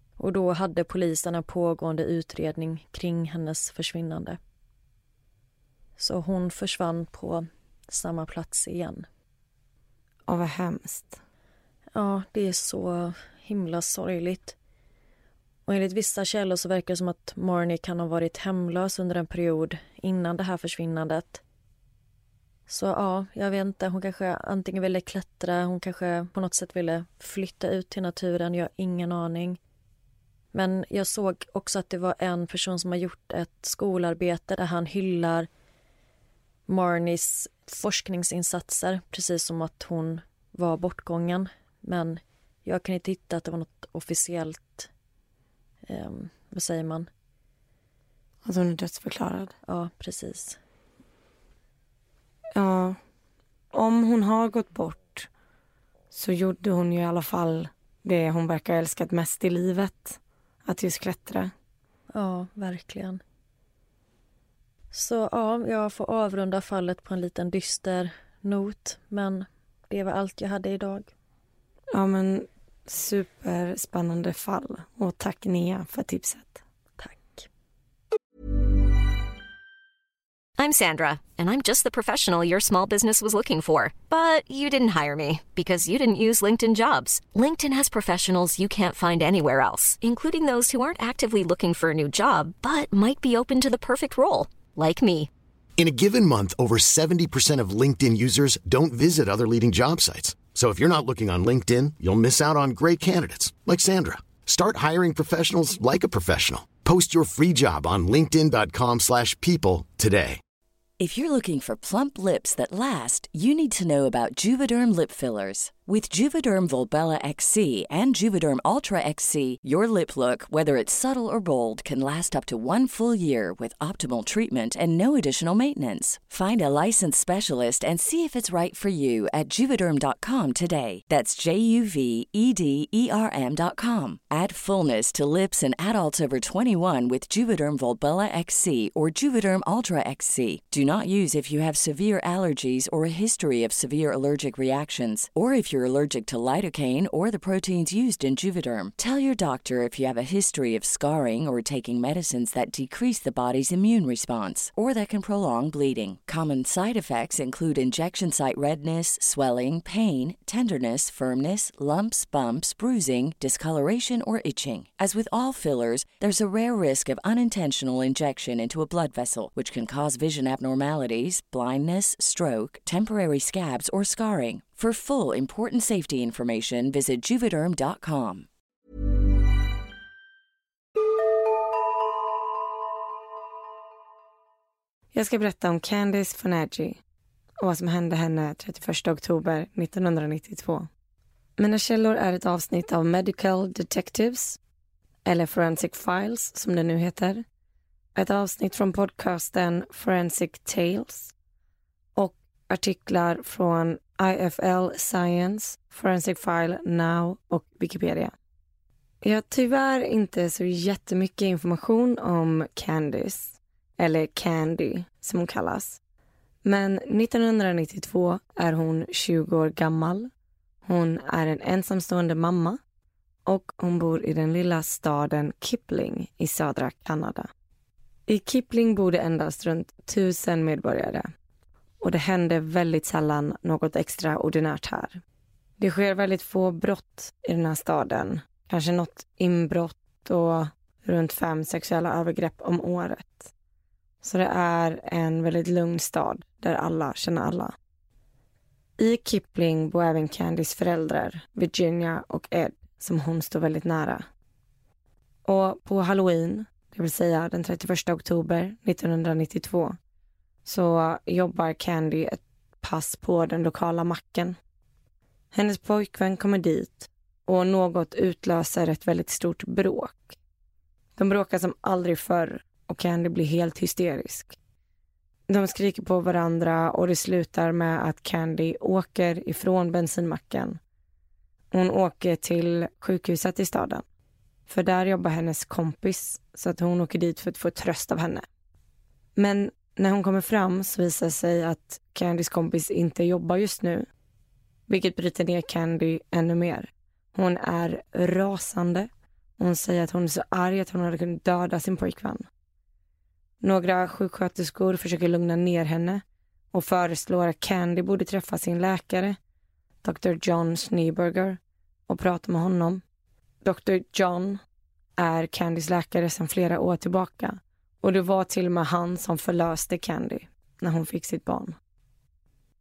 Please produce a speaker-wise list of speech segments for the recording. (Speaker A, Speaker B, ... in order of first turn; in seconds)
Speaker A: 0.2-4.4, 6.0-9.1, 11.9-14.5, 15.7-21.4, 22.7-29.6, 30.5-35.5, 36.7-44.9, 45.9-47.1, 49.6-50.6, 62.1-63.2, 64.9-71.1, 77.0-77.5
Speaker B: 10.3-11.2, 48.4-49.5, 52.5-53.0, 53.7-55.3, 56.1-61.5, 71.9-76.6, 185.1-187.0, 187.6-190.9, 191.6-194.6, 195.2-197.4, 198.1-201.3, 202.1-208.3, 209.2-216.0, 216.6-220.3, 220.8-222.8, 223.4-227.5, 228.3-231.3, 232.0-235.2, 235.8-243.5, 244.2-247.7, 249.0-254.2, 255.4-260.0, 260.6-264.6, 265.5-270.4, 271.2-274.6, 275.5-280.8, 281.7-284.0, 284.7-288.4, 289.4-294.1, 294.9-302.5, 303.6-309.4, 310.0-313.0, 313.6-314.6, 315.2-321.8
Speaker C: 80.6-95.3
Speaker D: 95.8-110.4
Speaker E: 111.0-178.5